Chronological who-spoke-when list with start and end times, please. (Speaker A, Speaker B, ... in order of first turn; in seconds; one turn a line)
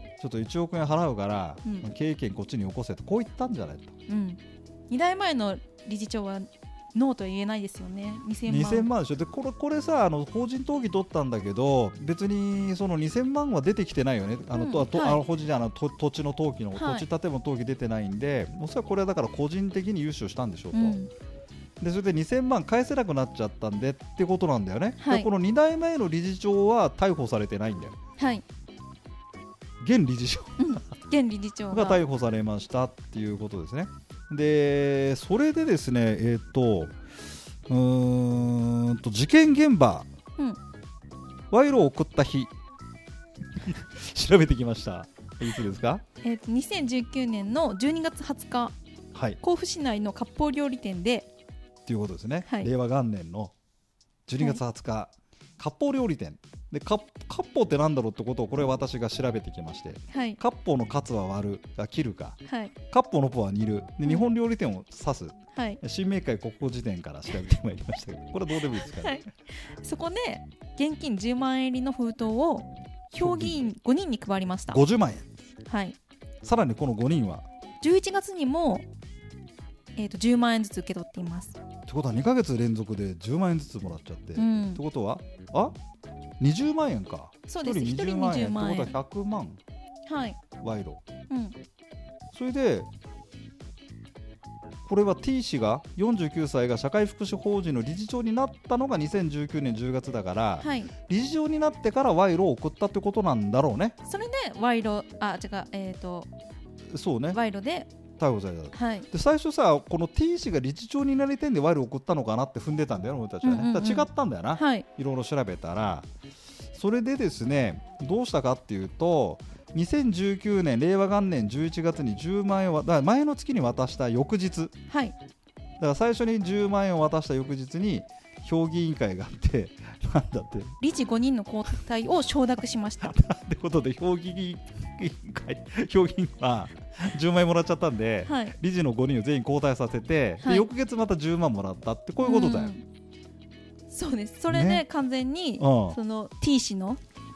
Speaker A: 0.2-3.9
Speaker B: 4.1-8.9
Speaker A: 8.5-21.0
Speaker B: 14.5-15.2
Speaker B: 16.8-17.1
Speaker B: 20.7-21.1
Speaker A: 21.8-27.9
Speaker B: 25.0-25.3
Speaker B: 28.2-28.4
Speaker A: 29.8-30.8
Speaker B: 30.6-32.0
Speaker A: 31.7-36.9
Speaker A: 37.7-40.1
Speaker A: 41.5-42.5
Speaker A: 43.6-46.0
Speaker B: 46.2-48.7
Speaker A: 49.1-49.4
Speaker B: 49.4-51.3
Speaker A: 51.9-53.5
Speaker A: 54.3-69.2
Speaker B: 60.1-60.4
Speaker B: 62.5-62.7
Speaker B: 65.5-65.8
Speaker B: 68.7-74.8
Speaker A: 73.2-73.6
Speaker A: 74.7-75.3
Speaker B: 75.7-76.0
Speaker A: 76.4-77.5
Speaker B: 77.8-78.8
Speaker B: 80.0-81.6
Speaker A: 81.9-85.7
Speaker B: 84.3-84.8
Speaker A: 86.4-89.6
Speaker B: 87.5-89.0
Speaker B: 90.0-90.4
Speaker A: 90.6-91.0
Speaker B: 91.3-91.6
Speaker A: 92.3-92.9
Speaker A: 94.8-104.0
Speaker B: 100.6-100.9
Speaker B: 104.0-106.3
Speaker A: 106.9-107.4
Speaker B: 107.3-107.9
Speaker A: 108.2-116.1
Speaker B: 108.7-109.1
Speaker B: 113.4-114.8
Speaker A: 116.7-124.7
Speaker B: 124.9-125.2
Speaker A: 125.8-130.8
Speaker B: 130.8-133.1
Speaker A: 133.0-142.7
Speaker B: 138.2-138.6
Speaker B: 140.4-140.7
Speaker B: 142.2-142.8
Speaker B: 143.9-147.0
Speaker A: 144.5-144.8
Speaker A: 145.6-146.0